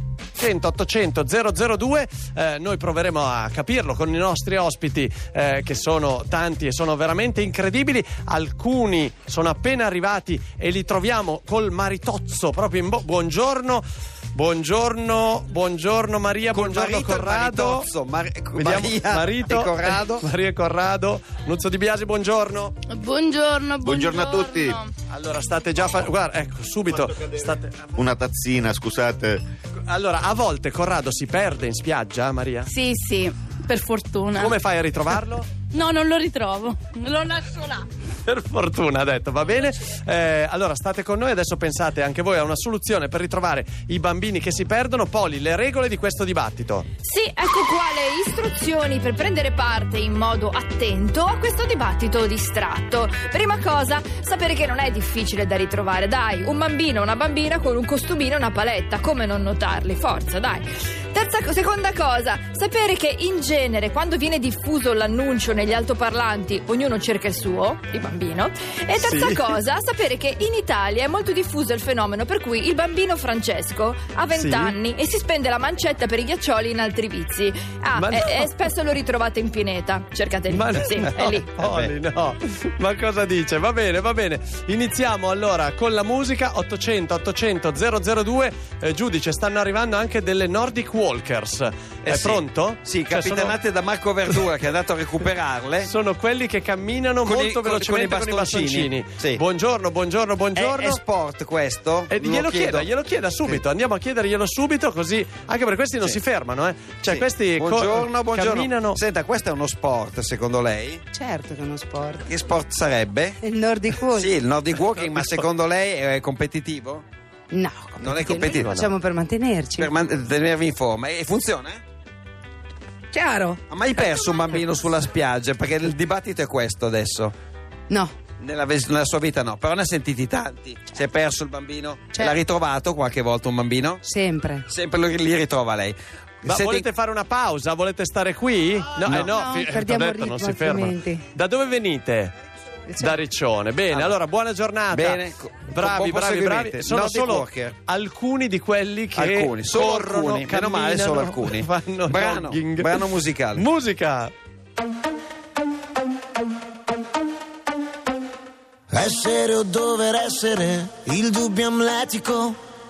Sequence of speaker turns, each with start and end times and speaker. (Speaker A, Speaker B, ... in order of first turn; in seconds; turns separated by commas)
Speaker A: 0.4-13.8, Speaker A: 14.3-17.9, Speaker B: 16.5-20.2, Speaker A: 18.6-22.7, Speaker C: 22.9-24.9, Speaker D: 23.8-24.7, Speaker A: 25.1-27.7, Speaker D: 28.0-29.4, Speaker A: 29.9-32.7, Speaker C: 32.7-34.7, Speaker A: 34.4-35.5, Speaker C: 35.6-37.8, Speaker A: 38.2-46.9, Speaker E: 47.0-81.6, Speaker A: 69.0-69.6, Speaker A: 74.3-74.8, Speaker A: 78.0-78.7, Speaker A: 80.5-93.6, Speaker B: 92.0-95.9, Speaker A: 95.8-101.0, Speaker B: 97.2-99.4, Speaker B: 100.5-102.9, Speaker A: 102.1-109.0, Speaker B: 107.1-111.0, Speaker F: 111.1-112.2, Speaker B: 112.2-113.4, Speaker F: 113.4-114.3, Speaker B: 114.0-117.0, Speaker F: 117.5-119.9, Speaker B: 118.0-118.8, Speaker A: 118.5-118.9, Speaker B: 119.7-121.8, Speaker F: 123.1-123.6, Speaker B: 123.7-127.3, Speaker F: 127.9-128.1, Speaker B: 128.4-134.0, Speaker F: 132.1-132.4, Speaker F: 134.0-134.6, Speaker B: 134.7-136.9, Speaker A: 136.4-142.3, Speaker B: 139.1-139.3, Speaker F: 139.1-141.2, Speaker F: 142.9-143.2, Speaker A: 142.9-154.3, Speaker B: 143.9-144.2, Speaker B: 144.9-147.8, Speaker B: 149.1-153.7, Speaker G: 158.9-162.6